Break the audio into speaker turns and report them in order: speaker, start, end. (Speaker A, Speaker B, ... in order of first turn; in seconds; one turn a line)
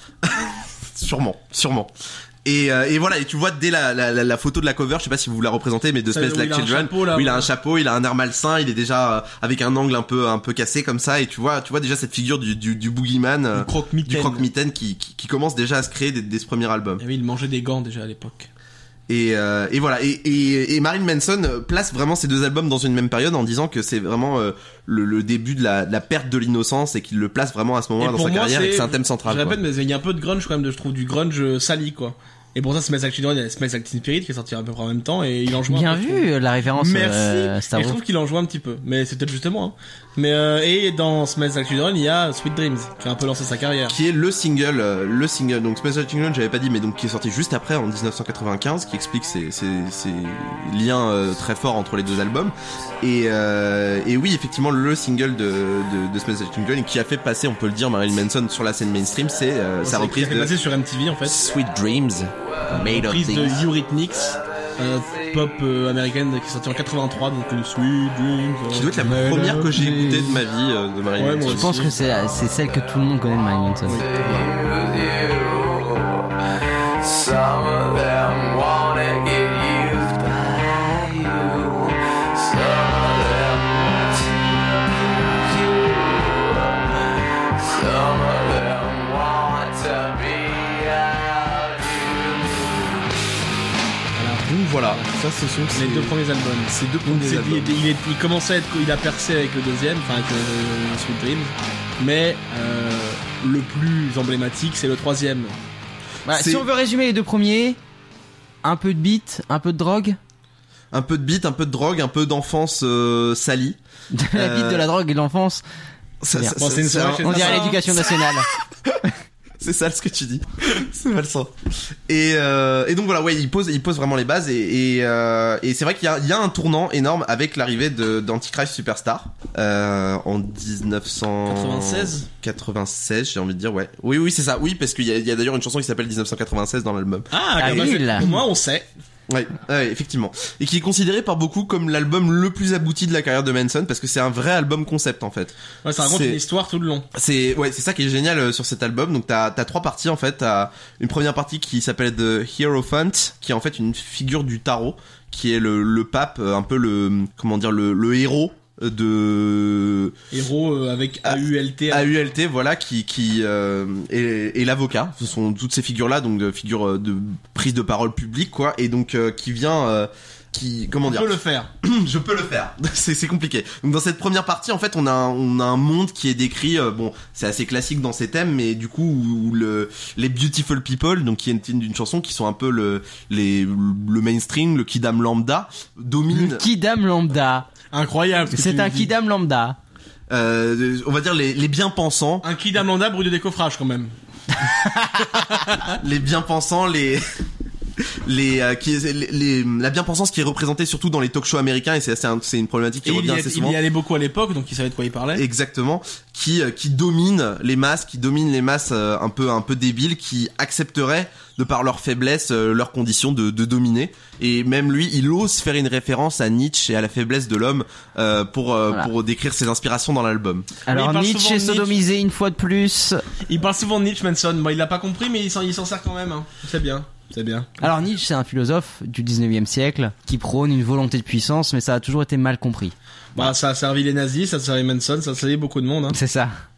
Speaker A: 0.2-1.9
Speaker A: 2.4-17.0
Speaker B: 6.1-7.5
Speaker B: 13.5-14.5
Speaker B: 17.0-18.5
Speaker A: 19.1-29.6
Speaker B: 28.0-44.0
Speaker C: 35.7-38.0
Speaker A: 43.9-60.5
Speaker B: 59.8-61.5
Speaker A: 61.2-63.6
Speaker B: 62.7-69.4
Speaker D: 64.2-65.7
Speaker A: 68.7-71.9
Speaker C: 69.0-70.4
Speaker B: 71.2-71.9
Speaker C: 71.5-74.0
Speaker D: 73.9-76.3
Speaker D: 77.0-93.1
Speaker A: 94.2-96.2
Speaker B: 95.7-105.5
Speaker A: 96.7-97.8
Speaker A: 106.3-106.7
Speaker C: 106.3-107.8
Speaker C: 108.6-110.2
Speaker A: 110.9-113.8
Speaker C: 114.1-115.6
Speaker A: 114.3-114.8
Speaker A: 116.2-118.0
Speaker C: 116.3-118.5
Speaker B: 116.6-118.1
Speaker A: 119.6-121.5
Speaker A: 122.1-138.4
Speaker B: 131.5-132.3
Speaker B: 137.3-138.8
Speaker C: 137.6-138.3
Speaker A: 139.3-146.4
Speaker B: 145.8-147.1
Speaker A: 147.1-160.1
Speaker B: 160.3-162.2
Speaker A: 161.9-186.7
Speaker B: 171.1-171.7
Speaker C: 186.3-187.7
Speaker B: 187.9-189.1
Speaker C: 188.5-189.8
Speaker A: 190.3-192.4
Speaker B: 192.4-194.1
Speaker C: 194.6-195.4
Speaker A: 196.0-197.2
Speaker A: 198.2-203.8
Speaker B: 203.0-205.4
Speaker A: 205.3-220.7
Speaker C: 220.9-223.2
Speaker B: 220.9-222.0
Speaker B: 223.4-227.7
Speaker C: 227.8-232.9
Speaker B: 233.3-236.2
Speaker C: 236.1-236.5